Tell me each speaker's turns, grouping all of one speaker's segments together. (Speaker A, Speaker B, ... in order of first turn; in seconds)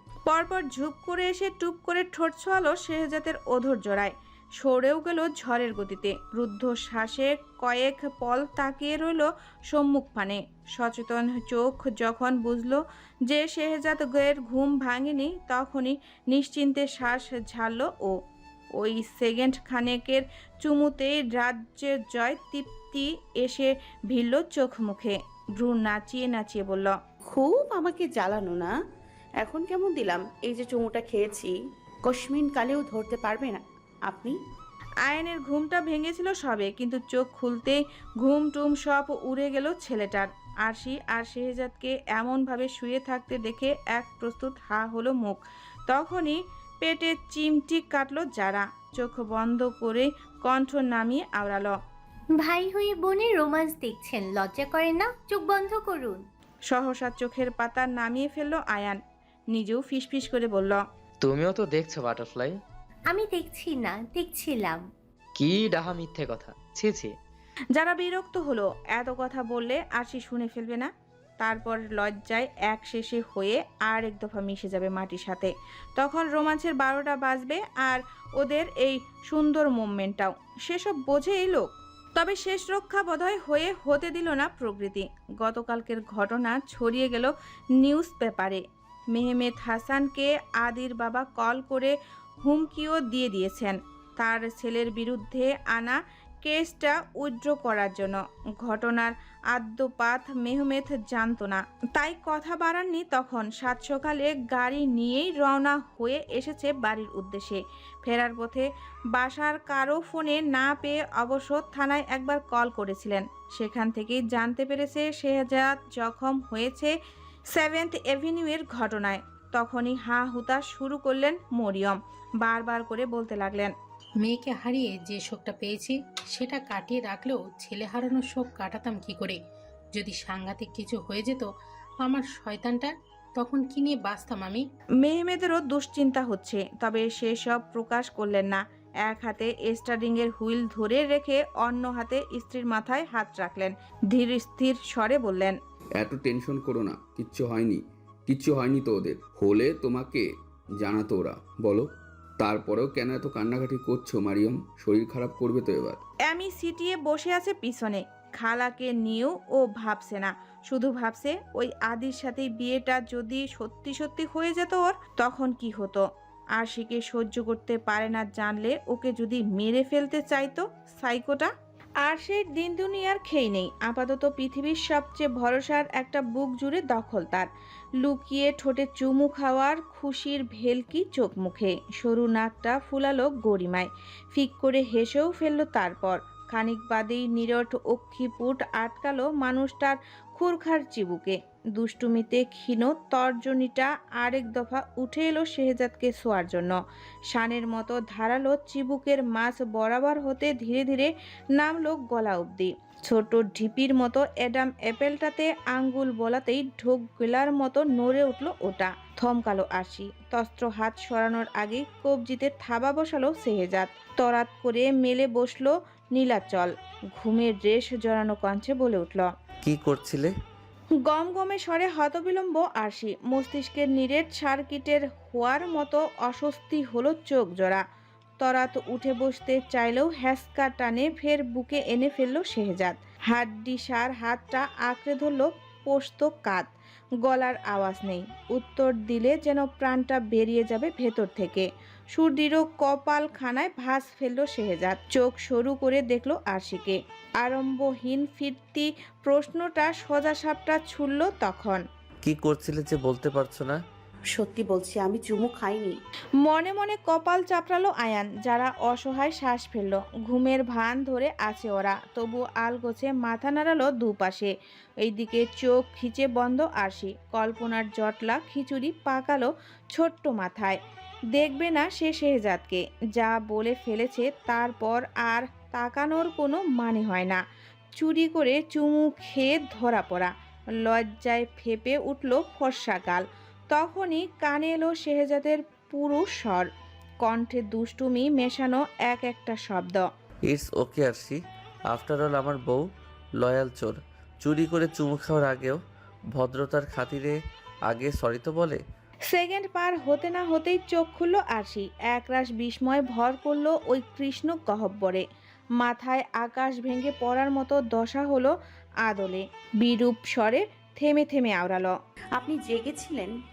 Speaker A: 0.2-18.1, 18.8-26.9, 35.0-51.7, 56.7-59.0, 59.5-60.8, 67.7-116.9, 117.5-123.7, 135.0-145.6, 156.2-166.0, 166.6-196.7, 197.3-219.3, 221.0-227.8, 228.4-236.7, 237.2-251.8, 256.4-270.8, 271.3-277.4, 278.0-280.3, 280.8-286.7, 287.2-290.0, 299.3-305.2, 305.8-311.9
Speaker B: 27.3-28.7, 29.4-34.3, 254.3-256.0, 312.4-313.3
Speaker C: 52.3-56.2, 63.1-64.8
Speaker D: 61.2-62.5, 65.3-67.1
Speaker E: 124.2-129.4, 129.9-131.5, 132.0-134.6
Speaker F: 146.0-156.0
Speaker G: 219.6-220.3, 252.2-253.8, 290.5-292.9, 293.4-295.8, 296.3-298.8